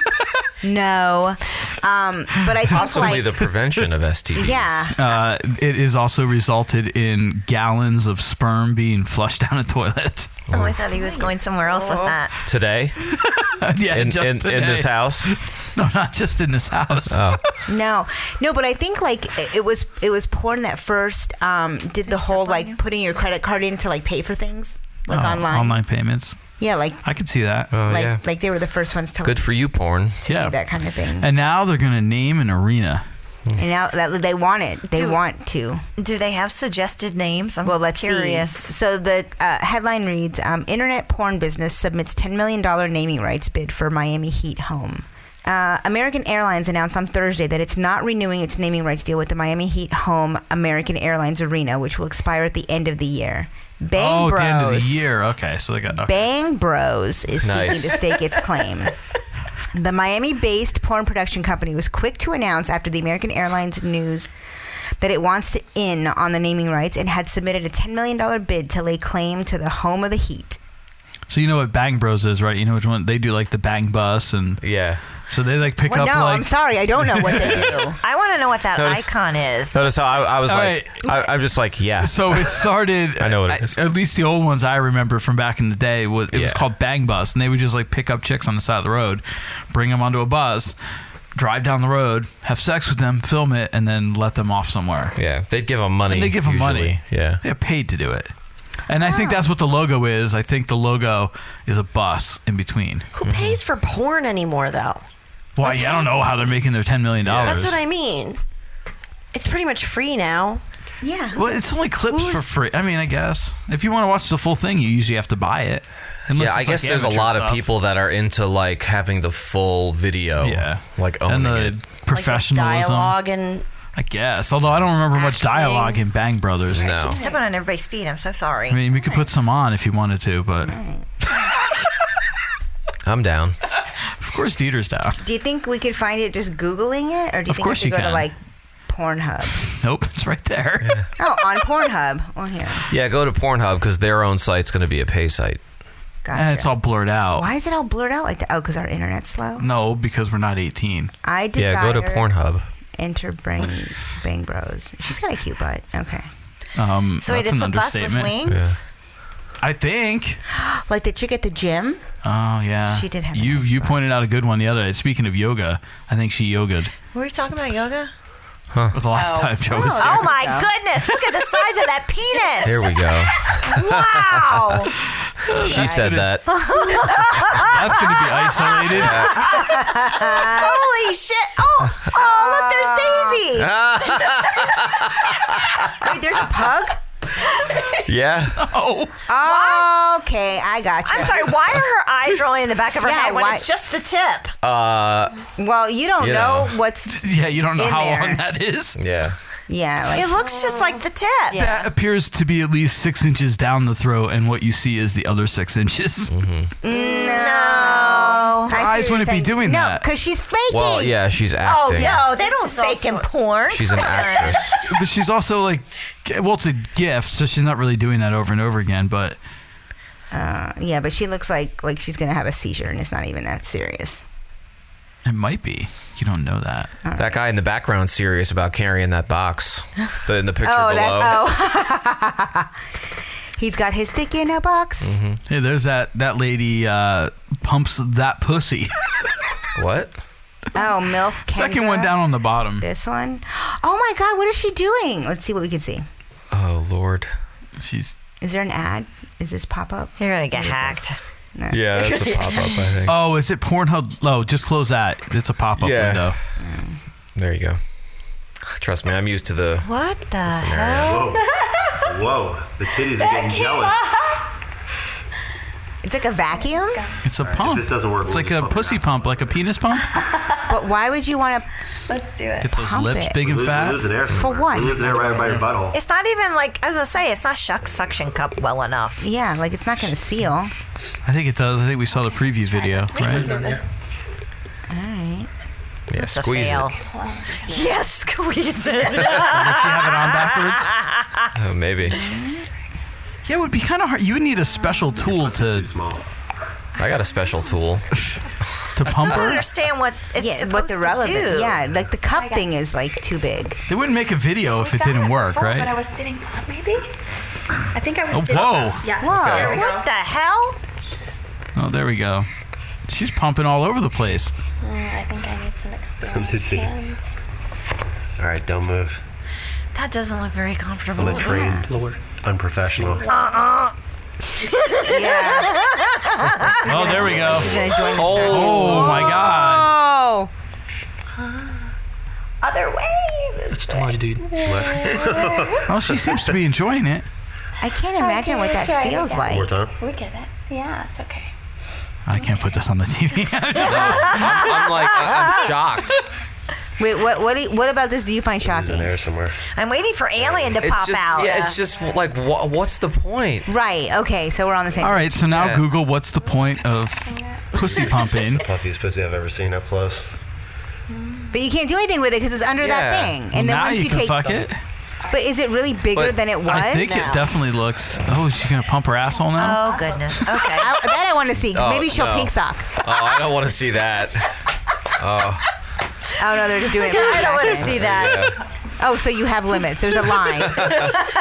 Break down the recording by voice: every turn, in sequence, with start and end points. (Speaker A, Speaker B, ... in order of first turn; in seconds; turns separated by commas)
Speaker A: 0.6-3.4, Speaker B: 2.7-4.9, Speaker A: 4.3-5.0, Speaker C: 4.9-10.3, Speaker B: 10.5-10.8, Speaker D: 10.5-12.3, Speaker A: 10.9-12.2, Speaker B: 12.4-12.9, Speaker C: 13.2-17.4, Speaker B: 13.9-15.3, Speaker B: 17.1-17.4, Speaker A: 17.6-25.8, Speaker D: 22.1-22.6, Speaker C: 25.1-27.7, Speaker A: 26.6-27.0, Speaker B: 27.7-28.2, Speaker A: 27.8-29.4, Speaker B: 29.2-30.2, Speaker A: 30.2-31.3, Speaker C: 30.3-30.6, Speaker C: 31.2-33.0, Speaker A: 33.5-35.8, Speaker D: 34.9-35.2, Speaker D: 36.0-38.7, Speaker A: 37.6-55.0, Speaker C: 54.0-56.3, Speaker A: 56.0-58.9, Speaker B: 57.4-58.0, Speaker A: 59.7-64.3, Speaker A: 65.0-70.6, Speaker C: 71.3-74.7, Speaker B: 74.6-75.0, Speaker C: 75.3-77.5, Speaker A: 75.8-78.0, Speaker D: 78.0-79.9, Speaker B: 78.7-79.1, Speaker B: 79.7-82.6, Speaker C: 80.5-81.1, Speaker C: 82.0-90.8, Speaker B: 83.2-83.8, Speaker B: 86.3-86.6, Speaker C: 91.3-95.2, Speaker B: 95.2-97.4, Speaker C: 96.1-103.1, Speaker A: 99.0-99.3, Speaker E: 103.1-105.0, Speaker B: 103.2-103.6, Speaker C: 105.5-107.8, Speaker E: 105.6-106.1, Speaker B: 107.2-107.5, Speaker E: 107.4-108.4, Speaker E: 109.3-110.6, Speaker A: 111.0-111.5, Speaker C: 111.3-117.7, Speaker E: 112.1-112.5, Speaker B: 116.3-121.8, Speaker C: 120.4-123.2, Speaker E: 122.1-123.6, Speaker C: 124.0-126.9, Speaker E: 125.2-125.9, Speaker B: 126.7-127.2, Speaker E: 126.8-127.2, Speaker D: 127.1-128.8, Speaker C: 128.7-130.7, Speaker A: 129.0-129.3, Speaker A: 130.6-131.1, Speaker B: 133.0-133.6, Speaker C: 134.2-135.2, Speaker A: 135.2-139.7, Speaker C: 137.5-138.3, Speaker C: 139.7-140.9, Speaker A: 141.2-142.8, Speaker B: 142.9-145.6, Speaker A: 146.2-146.7, Speaker C: 146.3-147.5, Speaker A: 147.3-149.6, Speaker C: 149.6-151.1, Speaker A: 151.2-152.3, Speaker B: 151.6-152.6, Speaker A: 153.0-156.3, Speaker C: 156.8-158.3, Speaker D: 157.2-158.8, Speaker B: 158.4-158.8, Speaker C: 159.6-160.4, Speaker A: 160.6-162.0, Speaker C: 162.2-166.9, Speaker A: 162.8-164.0, Speaker D: 167.1-168.1, Speaker C: 168.9-170.3, Speaker E: 169.1-169.5, Speaker A: 169.7-170.7, Speaker D: 169.9-172.8, Speaker B: 172.6-174.5, Speaker D: 173.7-174.9, Speaker C: 175.4-176.3, Speaker B: 175.6-176.4, Speaker A: 175.7-177.7, Speaker D: 176.5-177.7, Speaker C: 177.7-179.3, Speaker B: 178.9-179.4, Speaker A: 179.3-180.9, Speaker D: 179.7-183.7, Speaker A: 182.1-183.5, Speaker B: 183.6-185.9, Speaker A: 186.0-187.0, Speaker B: 188.1-188.6, Speaker C: 188.6-189.1, Speaker A: 189.3-191.6, Speaker D: 189.4-189.9, Speaker D: 191.0-194.5, Speaker A: 193.0-193.6, Speaker B: 194.6-195.3, Speaker A: 195.6-198.4, Speaker B: 196.2-196.8, Speaker C: 197.1-199.0, Speaker B: 198.9-199.3, Speaker A: 199.7-200.6, Speaker D: 200.1-201.8, Speaker C: 201.5-206.3, Speaker B: 206.3-206.7, Speaker A: 206.8-211.2, Speaker D: 206.9-208.7, Speaker E: 207.3-208.3, Speaker C: 208.7-210.1, Speaker B: 210.7-212.2, Speaker D: 211.6-214.6, Speaker E: 211.9-213.3, Speaker B: 213.7-214.7, Speaker E: 214.0-214.6, Speaker C: 214.9-219.4, Speaker A: 220.3-224.2, Speaker C: 225.2-226.9, Speaker A: 227.0-227.4, Speaker B: 227.2-231.4, Speaker A: 230.6-232.7, Speaker A: 233.6-235.2, Speaker B: 235.0-235.4, Speaker C: 235.5-238.9, Speaker B: 239.8-240.1, Speaker A: 240.7-242.2, Speaker C: 241.4-242.8, Speaker A: 242.8-246.0, Speaker B: 246.5-247.3, Speaker C: 247.8-248.2, Speaker A: 248.4-250.8, Speaker D: 250.2-251.2, Speaker B: 250.6-251.0, Speaker A: 251.6-251.8, Speaker B: 251.7-253.2, Speaker D: 251.9-252.8, Speaker C: 253.1-256.4, Speaker B: 255.8-256.3, Speaker A: 256.6-257.0, Speaker B: 257.3-257.8, Speaker B: 258.6-259.9, Speaker D: 259.8-261.2, Speaker B: 260.4-261.2, Speaker F: 261.0-261.4, Speaker F: 262.0-264.1, Speaker A: 266.0-267.0, Speaker G: 266.7-267.1, Speaker C: 267.2-270.1, Speaker F: 267.4-269.8, Speaker A: 270.7-271.6, Speaker G: 272.1-272.6, Speaker C: 272.6-274.1, Speaker A: 272.7-273.4, Speaker F: 273.4-276.0, Speaker A: 274.3-275.1, Speaker C: 275.0-275.6, Speaker D: 275.9-279.3, Speaker F: 277.8-278.1, Speaker A: 279.2-280.7, Speaker C: 281.2-283.5, Speaker G: 282.6-283.8, Speaker A: 284.9-285.5, Speaker B: 286.1-286.9, Speaker D: 286.2-287.0, Speaker G: 287.1-287.7, Speaker D: 287.6-291.1, Speaker C: 289.5-290.9, Speaker B: 291.5-292.1, Speaker A: 292.2-292.6, Speaker C: 293.4-295.9, Speaker F: 295.2-296.2, Speaker B: 297.0-298.1, Speaker C: 298.9-299.6, Speaker D: 299.0-301.8, Speaker A: 300.4-303.8, Speaker C: 303.9-306.0, Speaker G: 304.9-307.1, Speaker G: 308.0-309.3, Speaker C: 308.3-309.1, Speaker A: 309.2-310.0, Speaker B: 309.3-309.8, Speaker D: 309.4-310.8, Speaker C: 311.8-312.5, Speaker C: 313.1-314.5, Speaker G: 314.8-317.1, Speaker F: 316.3-316.9, Speaker F: 318.4-319.2, Speaker D: 319.9-321.9, Speaker F: 321.1-323.2, Speaker D: 323.3-323.9, Speaker A: 325.1-330.5, Speaker D: 325.1-325.7, Speaker C: 326.9-327.8, Speaker F: 327.0-328.2, Speaker B: 328.1-329.1, Speaker C: 328.5-329.9, Speaker G: 332.7-333.0, Speaker F: 333.8-336.6, Speaker G: 333.9-335.6, Speaker C: 335.9-337.2, Speaker A: 337.8-339.8, Speaker G: 338.2-339.4, Speaker F: 339.5-340.0, Speaker G: 340.0-341.5, Speaker C: 342.2-344.6, Speaker B: 343.8-346.2, Speaker A: 347.0-349.2, Speaker F: 348.6-349.6, Speaker D: 349.7-351.8, Speaker F: 350.4-350.7, Speaker B: 350.8-353.7, Speaker A: 353.7-355.4, Speaker C: 355.0-358.6, Speaker B: 355.5-355.8, Speaker F: 357.7-360.2, Speaker G: 361.1-361.5, Speaker A: 361.5-364.7, Speaker B: 362.8-363.4, Speaker C: 363.5-364.8, Speaker A: 365.3-367.2, Speaker B: 366.1-366.4, Speaker C: 366.6-369.8, Speaker D: 369.6-371.0, Speaker A: 370.7-372.9, Speaker B: 371.7-374.5, Speaker B: 375.2-375.6, Speaker A: 376.4-378.1, Speaker D: 377.0-378.5, Speaker B: 377.6-378.6, Speaker A: 379.0-381.1, Speaker B: 380.5-381.2